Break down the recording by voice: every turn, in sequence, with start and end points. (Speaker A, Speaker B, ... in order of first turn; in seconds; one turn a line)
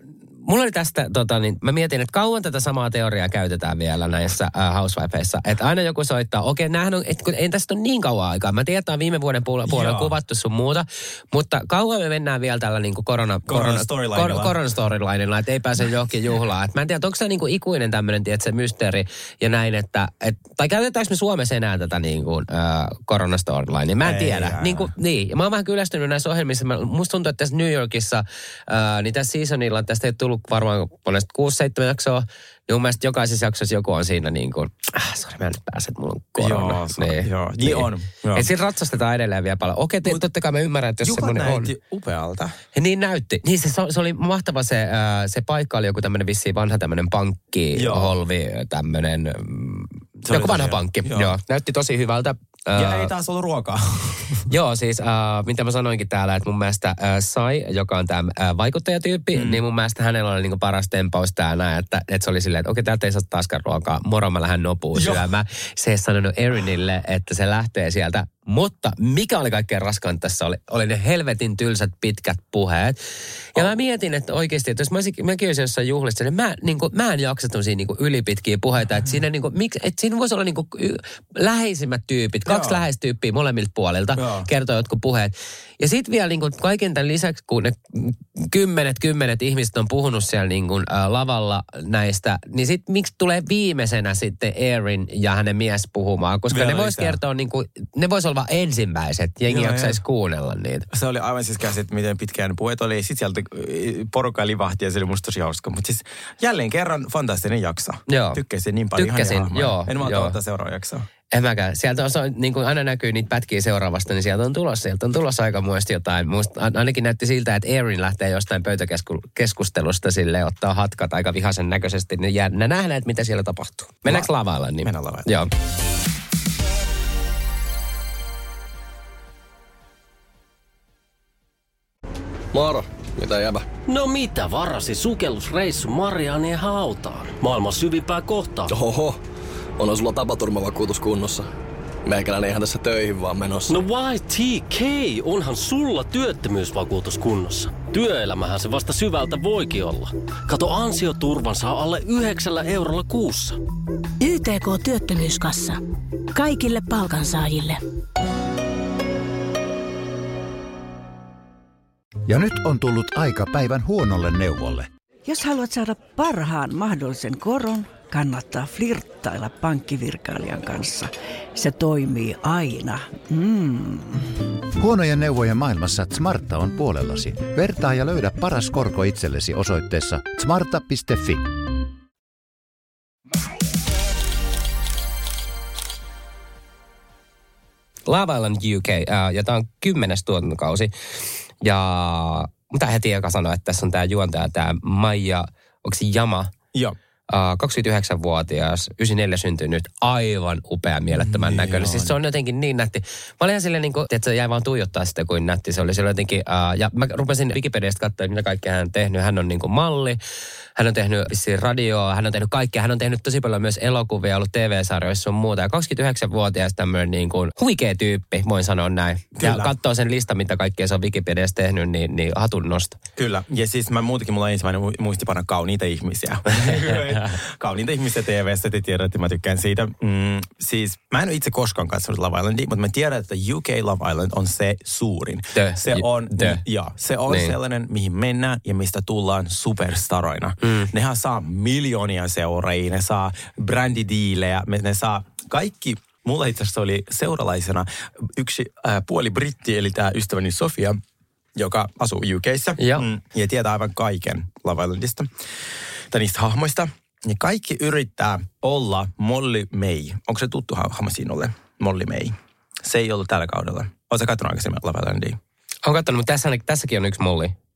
Speaker A: 0.4-41.7
Speaker B: 9.7-10.1
Speaker B: 13.5-14.5
Speaker B: 24.0-24.9
Speaker B: 36.4-38.5
Speaker B: 41.0-42.6
Speaker A: 42.7-53.1
Speaker B: 47.7-48.1
Speaker B: 50.2-51.4
Speaker B: 52.8-54.4
Speaker A: 54.5-73.0
Speaker B: 59.3-59.6
Speaker B: 64.9-65.2
Speaker A: 73.5-100.9
Speaker B: 82.5-82.8
Speaker B: 84.2-84.5
Speaker B: 96.5-97.2
Speaker B: 99.5-100.0
Speaker B: 100.9-111.0
Speaker A: 108.1-108.4
Speaker A: 109.0-110.3
Speaker A: 111.3-125.5
Speaker B: 124.0-124.3
Speaker B: 124.8-125.3
Speaker C: 132.5-133.6
Speaker D: 133.9-138.7
Speaker C: 138.7-139.2
Speaker C: 139.8-141.5
Speaker C: 142.1-143.8
Speaker D: 143.7-153.6
Speaker E: 154.2-155.8
Speaker E: 156.3-157.8
Speaker F: 162.3-164.9
Speaker G: 165.2-174.3
Speaker F: 174.8-181.5
Speaker A: 188.1-190.9
Speaker A: 191.6-196.5
Speaker A: 197.3-210.2
Speaker B: 201.1-202.2
Speaker A: 210.8-223.0
Speaker B: 219.4-219.7
Speaker B: 223.2-251.0
Speaker A: 235.6-236.6
Speaker A: 237.3-237.6
Speaker A: 240.6-240.9
Speaker B: 251.6-255.3
Speaker A: 252.8-253.1
Speaker B: 256.1-265.4
Speaker A: 265.8-267.5